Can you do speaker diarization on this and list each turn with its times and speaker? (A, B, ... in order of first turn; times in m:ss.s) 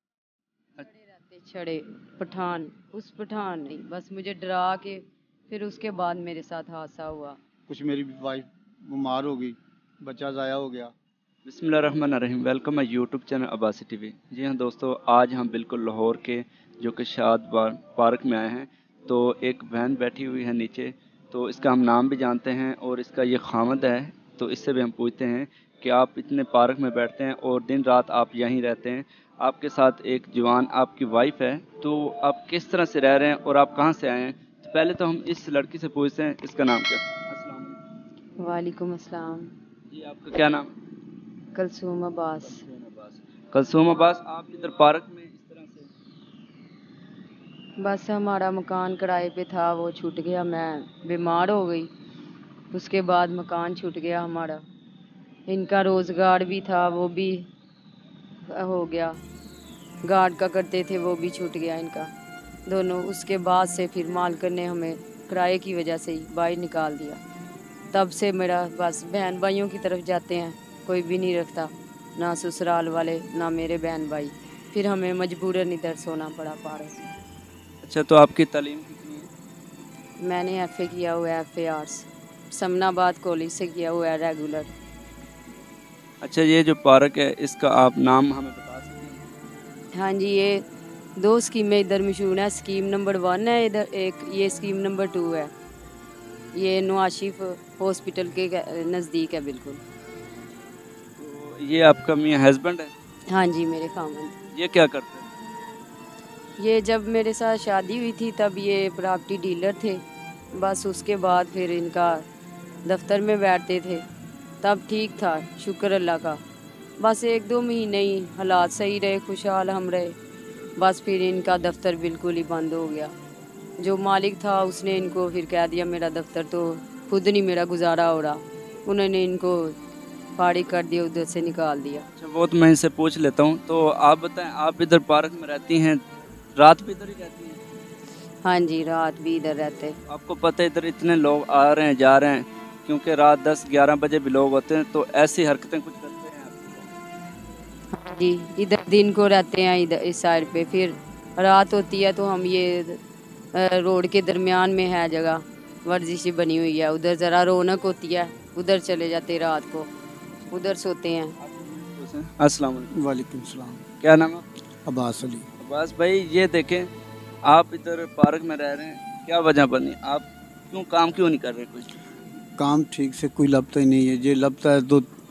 0:00.8-0:07.4 A
0:07.7-0:10.9 B
0:11.4-0:37.8 C
0:38.4-0:39.5 A
0:39.9-0:40.7 C
0:41.5-0:42.6 A
0:42.4-0:45.9 C
0:47.8-0:51.9 A
0:52.7-0:54.6 A
0:55.5-0:57.5 A
0:58.5-0:59.2 A
1:00.0-1:02.1 A
1:02.7-1:07.2 A
1:07.9-1:17.0 A
1:17.8-1:19.3 C
1:20.2-1:24.7 A
1:26.2-1:29.2 C
1:29.9-1:30.7 A
1:31.2-1:35.5 A
1:36.5-1:39.8 A
1:41.2-1:42.9 C
1:43.3-1:44.4 A
1:44.5-1:45.3 C
1:46.6-1:52.2 A
1:52.9-1:54.0 A
1:54.6-1:56.4 A
1:57.0-2:00.2 A
2:00.8-2:03.1 A
2:03.8-2:09.8 A
2:10.4-2:12.1 A
2:12.2-2:16.0 C
2:16.6-2:17.6 C
2:18.4-2:20.0 A
2:20.1-2:26.9 C
2:27.9-2:33.0 A
2:33.5-2:39.9 A
2:40.5-2:41.4 A
2:41.4-2:42.9 C
2:42.9-2:43.8 B
2:44.0-2:44.5 C
2:44.9-2:45.5 B
2:45.6-2:46.9 C
2:47.4-2:51.9 C
2:52.6-2:55.1 B